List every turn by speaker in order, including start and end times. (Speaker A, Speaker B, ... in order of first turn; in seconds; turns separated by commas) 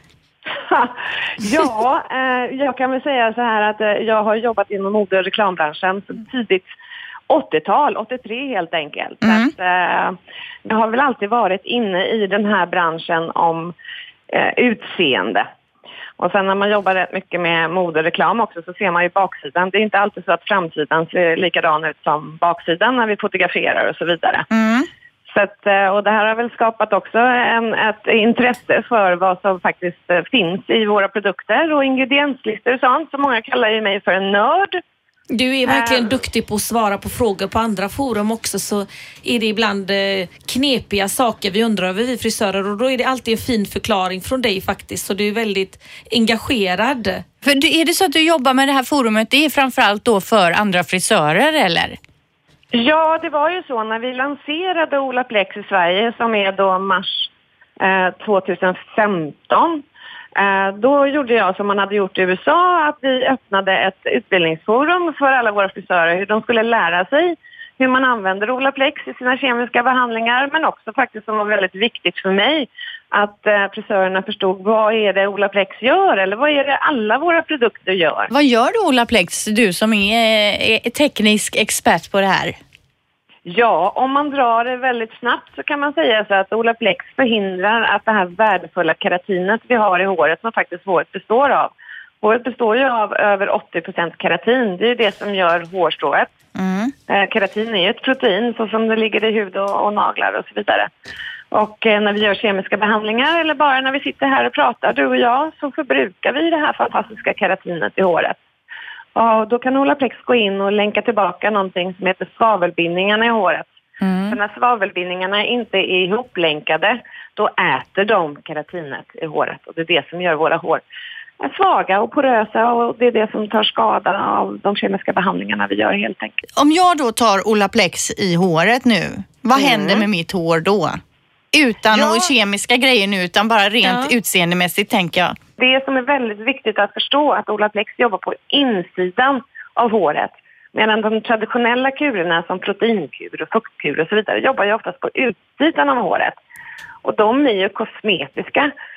Speaker A: 0.6-6.7, Speaker A: 7.3-13.7, Speaker B: 9.2-9.5, Speaker A: 14.3-15.5, Speaker A: 16.2-24.4, Speaker B: 24.5-24.9, Speaker A: 25.3-34.8, Speaker C: 35.3-47.2, Speaker A: 35.6-36.2, Speaker B: 47.4-52.0, Speaker A: 52.7-59.8, Speaker A: 60.4-78.3, Speaker B: 78.3-82.6, Speaker A: 83.4-96.3, Speaker B: 96.5-96.9, Speaker A: 97.1-100.9, Speaker A: 101.5-108.4, Speaker A: 109.1-113.7, Speaker B: 114.0-114.3, Speaker A: 114.3-120.8, Speaker A: 121.4-126.4, Speaker B: 126.5-131.0, Speaker A: 129.5-130.1, Speaker B: 131.5-135.4, Speaker C: 131.9-132.3, Speaker C: 133.8-134.1, Speaker A: 135.6-146.4, Speaker A: 147.0-148.7